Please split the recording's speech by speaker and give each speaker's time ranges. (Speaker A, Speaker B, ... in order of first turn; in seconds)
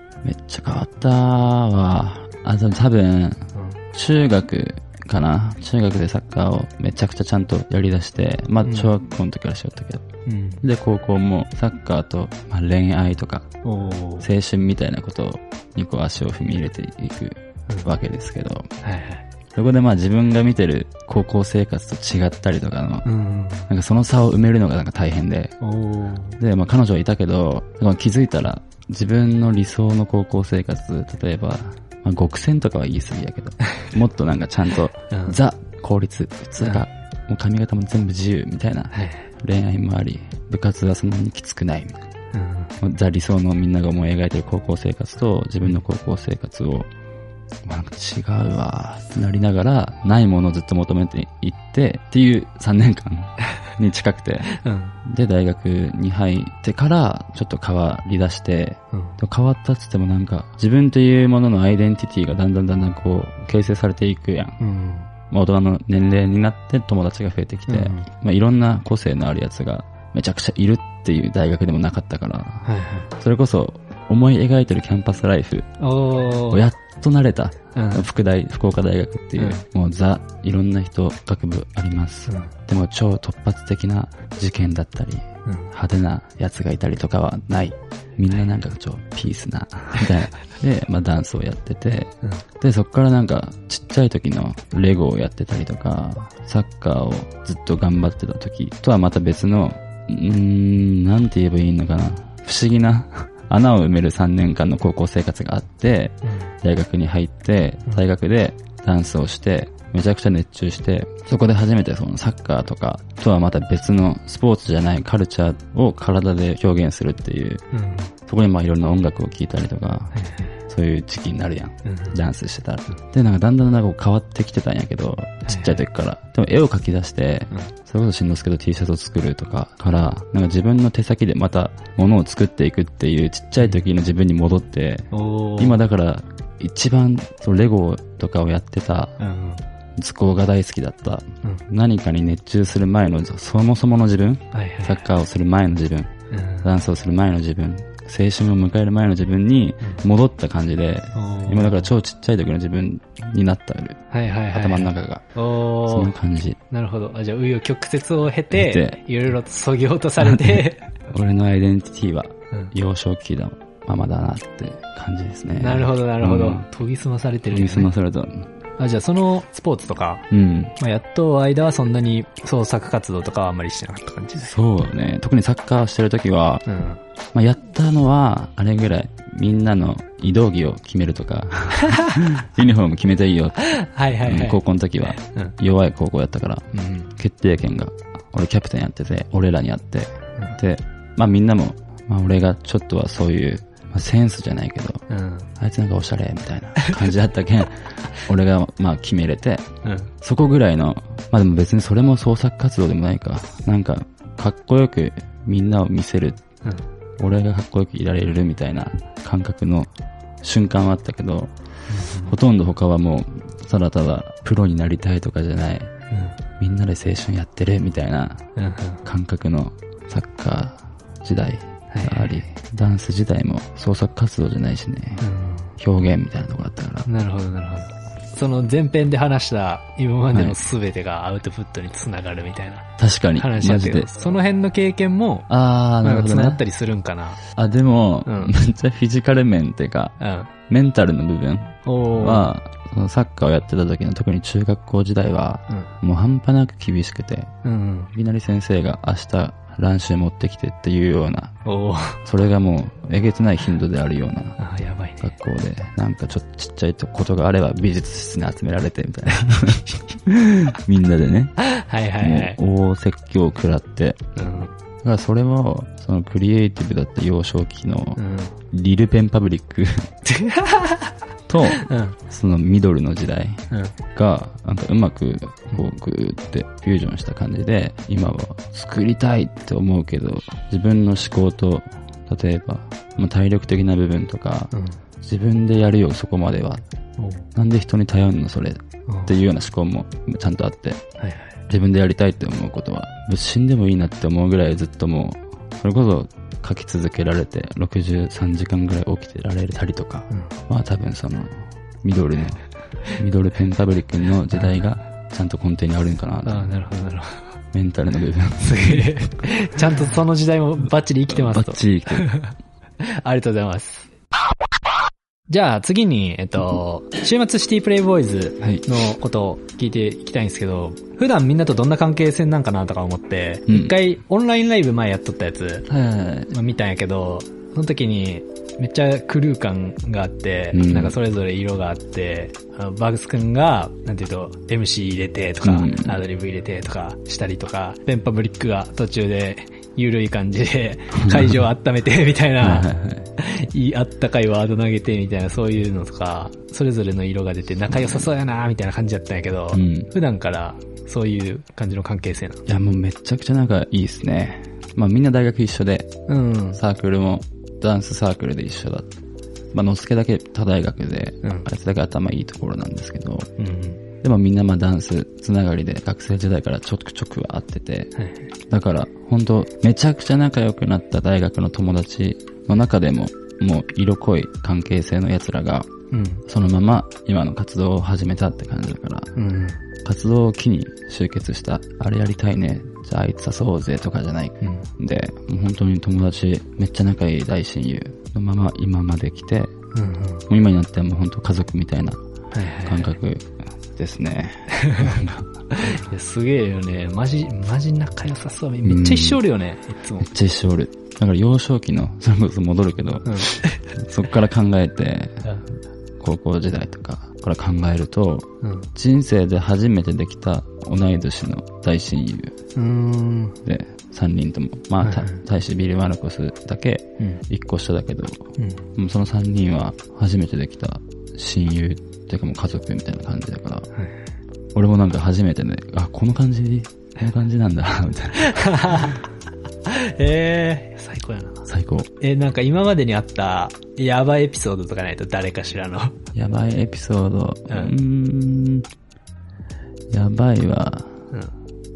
Speaker A: 0.2-10.1, 10.6-13.5, 14.2-18.7, 19.5-23.1, 23.7-25.6, 26.4-42.0, 42.8-46.9, 47.6-54.5, 55.0-64.6, 65.3-75.7, 76.5-117.6, 118.2-120.2, 120.7-139.2, 140.0-154.0, 154.5-155.3, 155.8-156.6, 158.5-159.0, 160.2-166.7, 167.5-168.5, 170.3-170.8, 174.4-176.7, 177.3-195.0, 195.6-199.7, 200.2-206.4, 207.2-209.9, 210.4-211.5, 212.2-215.9, 216.6-218.5, 219.0-225.2, 225.8-227.1, 230.3-230.6, 233.0-234.4, 235.5-236.6, 237.5-240.2, 240.7-247.5, 248.1-251.6, 252.2-254.6, 255.2-261.6, 262.2-264.3, 265.0-270.1, 271.5-286.8, 287.6-291.0, 291.7-306.7, 307.7-309.2, 311.3-312.4, 318.6-318.9, 323.7-323.9, 325.9-326.5, 330.7-331.2, 335.6-336.2, 341.1-341.6, 342.6-343.3, 347.9-348.2, 349.7-350.1, 352.7-356.1, 356.7-359.1, 359.7-363.5, 364.2-368.1, 368.7-375.9, 376.5-379.3, 380.0-389.7, 390.5-392.2, 392.8-395.9, 398.8-399.4, 400.2-405.4, 406.2-412.5, 413.6-423.9, 424.7-429.1, 431.7-432.1, 436.3-438.9, 440.1-441.3
Speaker B: 3.5-3.8, 8.7-8.9, 10.3-10.6, 13.7-14.3, 18.8-19.2, 23.1-23.7, 25.6-26.4, 35.1-35.4, 38.9-39.3, 42.3-42.7, 54.5-55.0, 64.6-65.1, 67.7-68.1, 72.7-73.1, 75.8-76.7, 77.8-78.1, 79.4-79.6, 85.5-85.7, 106.2-106.5, 117.7-118.1, 120.1-120.6, 121.8-122.2, 125.5-125.8, 135.1-135.8, 139.2-139.6, 144.5-145.0, 146.3-146.7, 151.2-151.9, 154.1-156.1, 156.7-160.9, 165.6-167.9, 168.8-170.3, 170.8-174.5, 176.7-177.0, 181.8-182.2, 183.6-185.5, 186.7-187.1, 195.1-195.5, 199.8-200.1, 211.9-212.3, 216.1-216.4, 218.6-219.0, 221.9-222.4, 225.2-225.7, 227.1-235.5, 236.0-237.4, 238.3-238.6, 240.2-240.5, 241.8-242.5, 247.6-248.1, 251.7-252.2, 254.6-255.3, 259.4-259.9, 261.6-262.6, 264.4-264.7, 268.2-268.6, 270.3-271.1, 271.7-272.2, 284.7-285.0, 287.2-287.5, 289.1-289.4, 291.2-291.6, 306.5-307.5, 308.6-314.1, 315.5-325.9, 326.5-352.6, 356.3-356.8, 361.4-361.7, 363.6-364.0, 368.2-368.5, 376.1-376.4, 379.4-379.8, 384.6-384.9, 389.9-390.5, 392.5-393.2, 394.7-400.3, 403.3-403.8, 408.6-408.9, 412.8-413.6, 415.0-415.4, 418.6-418.9, 428.4-429.2, 429.9-431.7, 432.2-436.2, 437.7-437.9